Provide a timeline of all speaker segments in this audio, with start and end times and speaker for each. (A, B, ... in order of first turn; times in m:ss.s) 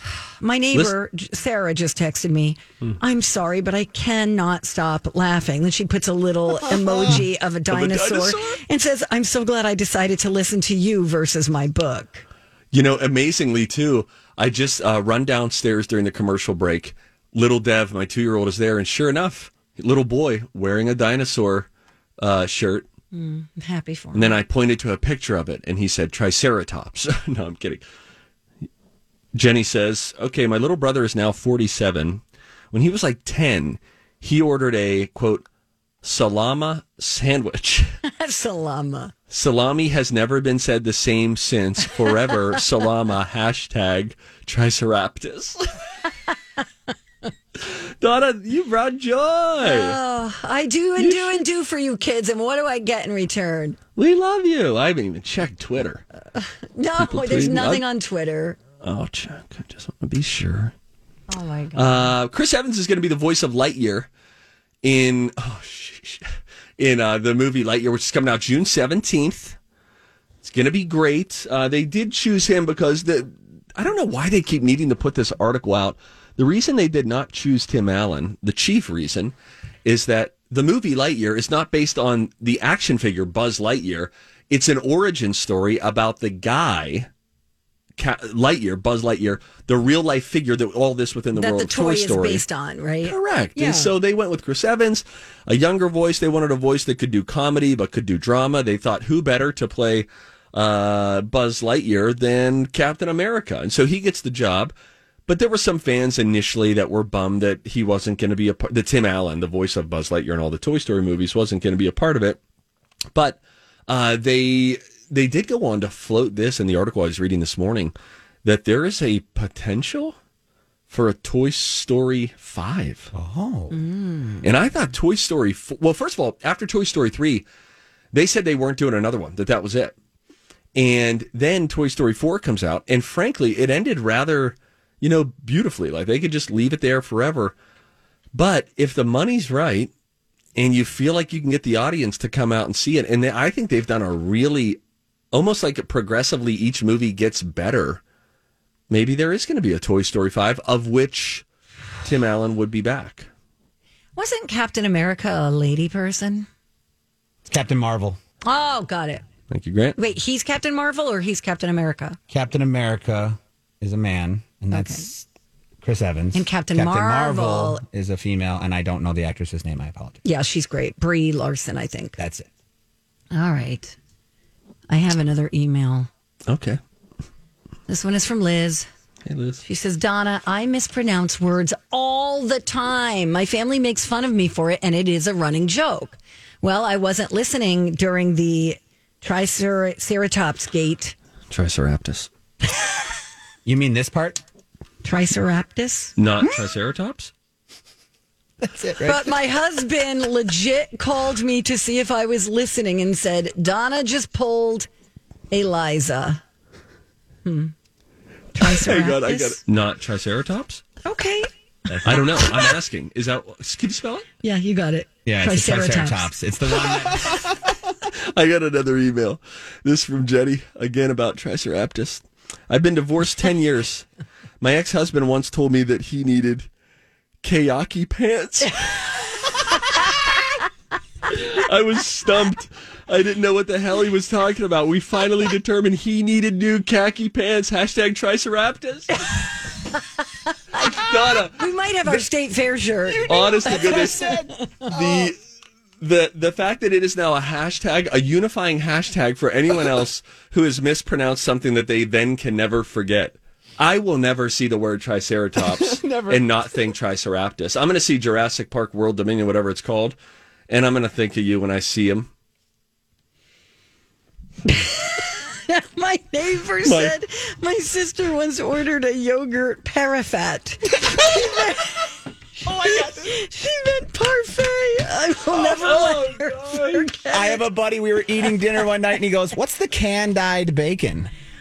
0:00.4-0:12.3 A
0:07.0-0:08.6 B
0:12.7-0:22.8 B
0:23.1-0:24.4 A
0:24.1-0:27.8 B
0:29.3-0:35.4 B
0:36.0-0:38.0 B
0:38.1-0:39.1 A
0:39.3-0:45.6 B
0:47.6-0:50.0 B
0:49.6-0:53.8 A
0:51.0-0:51.5 B
0:54.0-0:56.0 B
0:56.3-0:58.6 A
0:57.0-0:57.8 B
0:58.8-1:00.7 B
1:01.3-1:02.1 A
1:01.8-1:04.1 B
1:04.8-1:06.3 B
1:06.8-1:09.6 B
1:10.4-1:19.3 B
1:19.8-1:27.1 B
1:28.0-1:32.4 B
1:31.3-1:33.9 A
1:33.0-1:44.7 B
1:45.3-1:52.4 B
1:53.1-1:57.9 B
1:58.4-2:00.2 B
2:00.9-2:03.1 B
2:03.1-2:03.8 C
2:03.7-2:04.4 A
2:04.4-2:07.4 B
2:08.1-2:10.0 B
2:10.8-2:17.5 B
2:18.3-2:19.9 B
2:20.6-2:24.8 B
2:25.3-2:28.0 B
2:28.9-2:31.4 B
2:32.0-2:33.3 B
2:34.2-2:36.5 A
2:37.5-2:38.2 C
2:38.5-2:39.2 A
2:39.5-2:40.0 B
2:40.0-2:42.2 A
2:42.3-2:45.3 C
2:44.7-2:45.1 A
2:45.8-2:50.2 C
2:46.3-2:47.8 A
2:50.2-2:52.2 A
2:52.2-2:52.5 C
2:53.3-2:54.0 A
2:54.9-2:56.1 A
2:56.5-2:56.8 B
2:57.9-2:58.9 A
2:59.3-2:59.6 B
2:59.6-3:11.2 A
3:11.5-3:12.3 B
3:13.6-3:14.4 C
3:15.0-3:16.2 A
3:16.2-3:17.3 B
3:18.6-3:19.4 C
3:19.0-3:24.9 A
3:25.5-3:26.4 A
3:27.4-3:27.7 A
3:28.6-3:29.6 A
3:28.6-3:30.8 B
3:31.0-3:31.5 A
3:31.9-3:32.2 C
3:32.0-3:32.7 A
3:32.0-3:34.2 B
3:34.4-3:36.3 A
3:35.2-3:37.4 C
3:38.3-3:44.1 B
3:44.6-3:46.7 B
3:47.4-3:49.3 B
3:51.3-3:59.3 B
4:00.5-4:00.9 A
4:00.8-4:02.2 B
4:01.5-4:04.6 A
4:03.1-4:05.3 C
4:03.3-4:04.3 B
4:04.9-4:05.4 B
4:06.0-4:20.2 B
4:15.6-4:16.7 C
4:20.7-4:22.3 B
4:24.7-4:32.1 A
4:26.8-4:27.1 B
4:31.1-4:31.7 C
4:32.6-4:33.4 C
4:32.8-4:37.6 A
4:35.5-4:37.1 B
4:37.3-4:41.3 C